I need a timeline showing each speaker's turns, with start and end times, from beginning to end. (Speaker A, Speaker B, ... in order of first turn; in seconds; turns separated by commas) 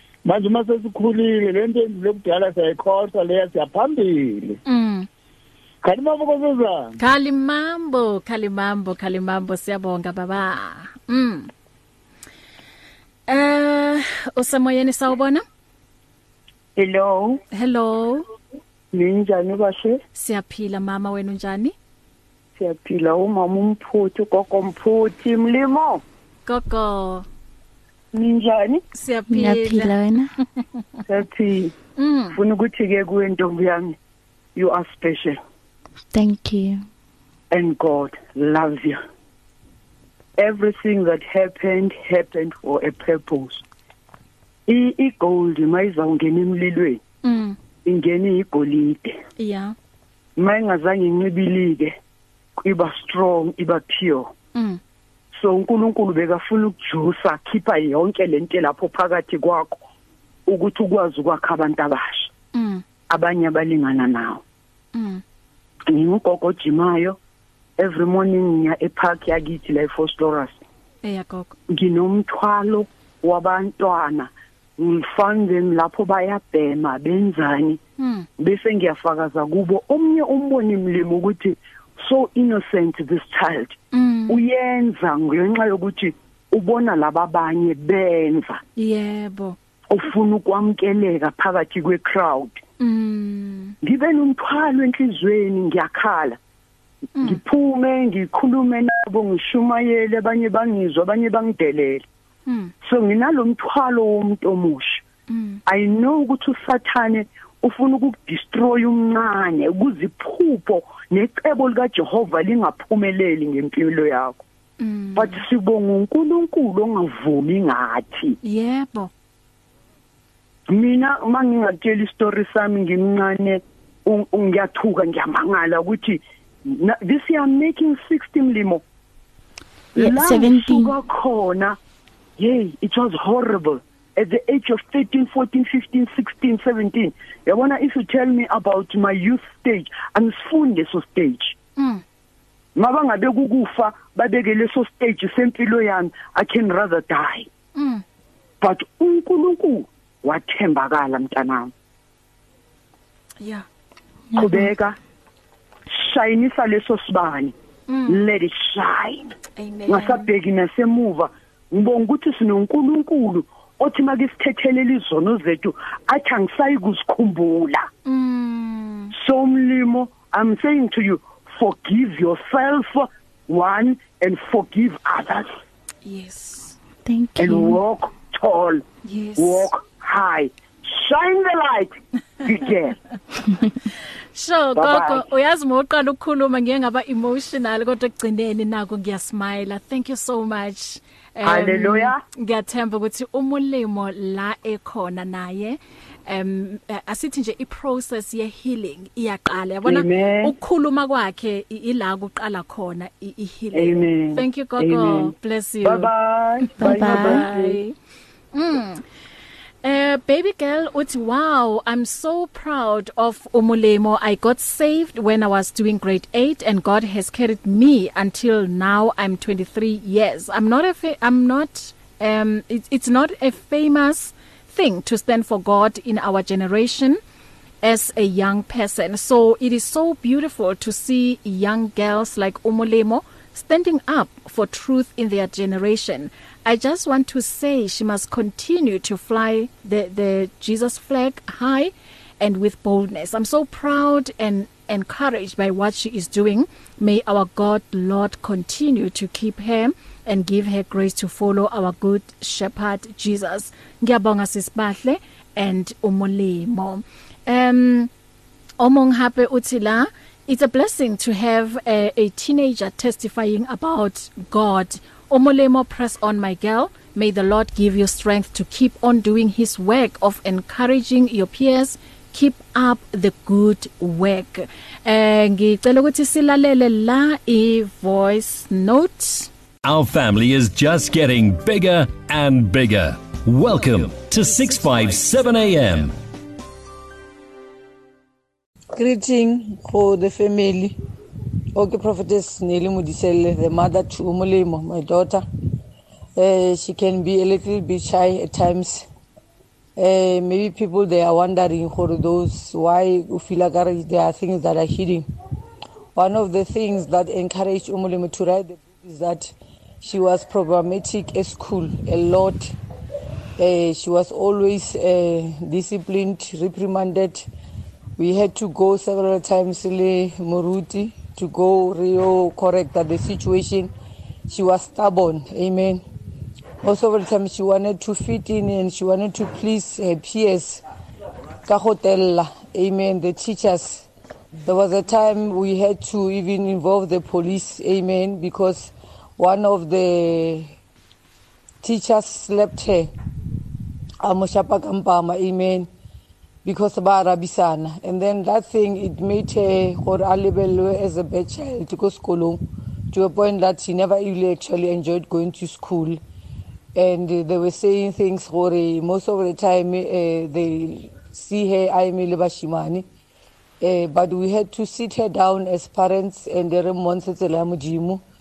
Speaker A: 0.2-4.6, Speaker B: 4.7-5.1, Speaker A: 5.8-6.9, Speaker B: 7.0-11.5, Speaker B: 13.3-15.4, Speaker C: 16.8-17.4, Speaker B: 17.5-18.2, Speaker C: 18.9-20.0, Speaker B: 20.1-21.7, Speaker C: 22.6-26.0, Speaker B: 26.4-27.2, Speaker C: 28.1-28.8, Speaker B: 28.9-29.9, Speaker D: 29.3-30.3, Speaker C: 31.1-31.7, Speaker B: 32.0-32.4, Speaker C: 32.3-34.0, Speaker C: 34.5-35.4, Speaker D: 36.1-36.9, Speaker C: 37.5-39.0, Speaker C: 40.4-43.6, Speaker C: 44.7-47.0, Speaker B: 47.2-47.6, Speaker C: 47.8-49.2, Speaker B: 49.4-49.7, Speaker C: 50.4-52.0, Speaker C: 52.6-54.3, Speaker B: 54.5-54.8, Speaker C: 55.3-59.8, Speaker C: 60.5-62.3, Speaker B: 62.5-62.8, Speaker C: 63.1-64.4, Speaker B: 64.9-65.2, Speaker C: 65.9-67.2, Speaker C: 67.8-70.6, Speaker B: 71.0-71.5, Speaker C: 71.7-77.8, Speaker B: 78.0-78.3, Speaker C: 78.4-83.8, Speaker B: 83.9-84.4, Speaker C: 84.3-88.6, Speaker B: 88.8-89.6, Speaker C: 89.9-92.6, Speaker B: 92.8-93.8, Speaker C: 93.8-96.4, Speaker B: 97.2-97.4, Speaker C: 97.2-102.0, Speaker B: 102.5-102.7, Speaker C: 102.8-105.0, Speaker B: 105.3-105.6, Speaker C: 105.7-114.4, Speaker B: 114.8-115.4, Speaker C: 115.2-118.4, Speaker B: 118.4-119.1, Speaker C: 120.7-128.8, Speaker D: 129.9-130.9, Speaker C: 129.9-131.8, Speaker C: 132.4-141.5, Speaker B: 141.8-142.0, Speaker C: 142.8-147.5, Speaker B: 147.7-148.0, Speaker C: 148.6-151.7, Speaker B: 153.4-153.7, Speaker D: 154.3-154.7, Speaker C: 154.3-155.0, Speaker C: 155.9-157.5, Speaker B: 157.9-158.2, Speaker C: 158.1-159.3, Speaker B: 159.6-160.3, Speaker C: 159.9-167.9, Speaker B: 168.1-169.1, Speaker C: 169.1-175.5, Speaker B: 176.0-176.8, Speaker D: 177.0-177.8, Speaker C: 177.4-178.8, Speaker B: 179.0-179.7, Speaker C: 179.4-182.9, Speaker B: 184.3-206.1, Speaker C: 184.8-185.2, Speaker C: 191.4-192.2, Speaker C: 199.8-200.5, Speaker C: 203.7-207.8, Speaker D: 206.8-207.4, Speaker B: 206.8-207.9, Speaker B: 208.5-209.0, Speaker B: 209.8-227.2, Speaker B: 227.8-258.1, Speaker B: 258.8-279.5, Speaker E: 279.8-286.1, Speaker F: 288.9-290.9, Speaker F: 291.7-295.4, Speaker F: 296.4-299.1, Speaker F: 299.9-305.2, Speaker F: 306.1-312.7, Speaker F: 313.6-317.4, Speaker F: 318.2-323.9, Speaker F: 324.5-326.0, Speaker F: 326.8-330.8, Speaker F: 331.6-334.1, Speaker F: 334.6-340.7, Speaker F: 341.8-343.1, Speaker F: 344.2-345.9, Speaker F: 346.6-356.2, Speaker F: 356.9-363.1, Speaker F: 363.8-368.2